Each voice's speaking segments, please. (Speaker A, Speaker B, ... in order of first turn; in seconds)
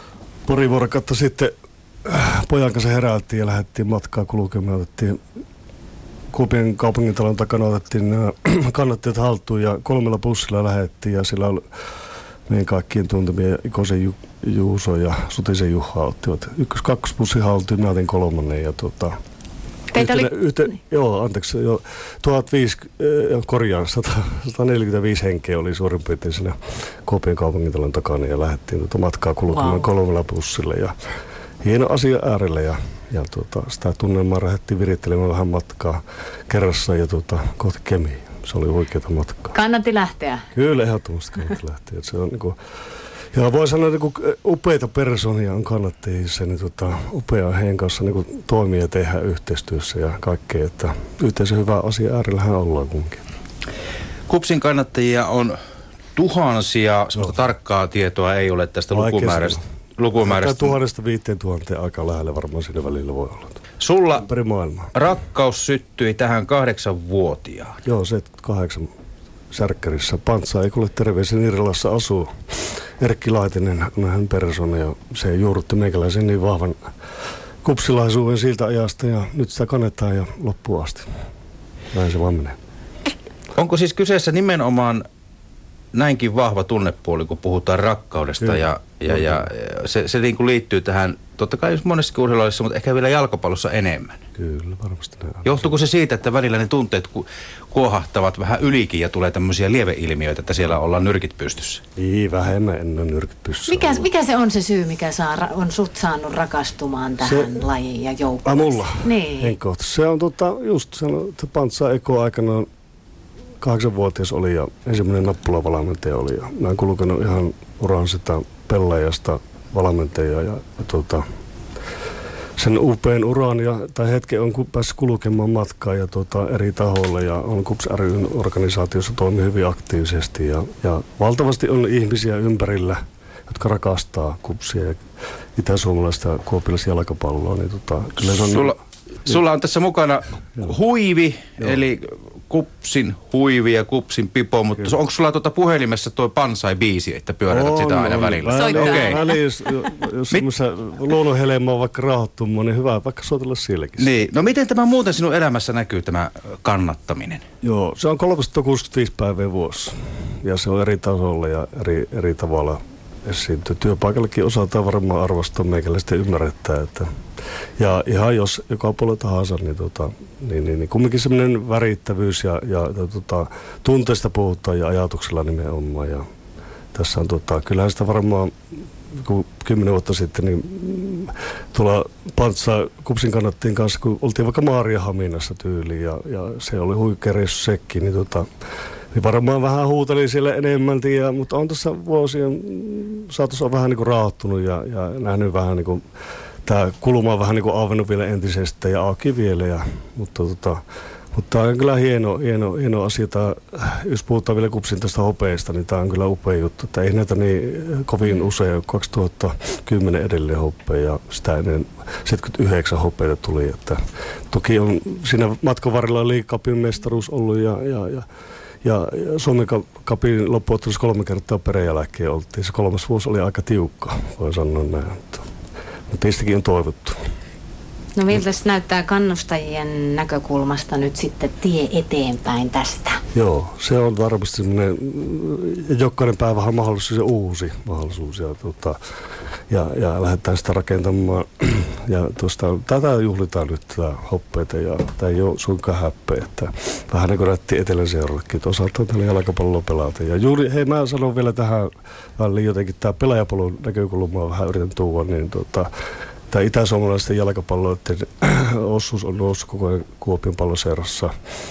Speaker A: 0.5-1.5, 2.0-5.2, 6.3-11.6, 12.5-19.2, 19.9-30.9, 31.6-39.6, 40.5-42.6, 43.3-53.3, 58.9-59.6, 60.2-63.6, 64.1-64.9, 67.8-68.9, 69.5-72.3, 73.0-76.8, 77.6-81.1, 81.9-82.6, 88.4-89.5, 94.4-95.7, 102.0-104.1, 107.2-107.7, 108.5-112.7, 113.6-121.2, 122.6-135.0, 135.6-138.7, 147.5-154.1, 157.6-167.1, 167.8-176.3, 176.9-178.6, 179.1-188.5, 189.1-196.0, 196.7-200.8, 201.3-218.3, 218.8-225.5, 226.1-227.2, 233.3-239.0, 239.7-255.9, 256.5-261.3
Speaker B: 19.9-20.3, 29.5-29.9, 39.5-40.5, 103.7-109.6, 148.5-149.4, 228.2-233.2
Speaker C: 54.3-55.6, 56.1-60.8, 63.8-64.3, 64.9-67.8, 83.5-85.0, 85.9-94.2, 95.4-101.8, 138.2-149.3, 154.0-157.4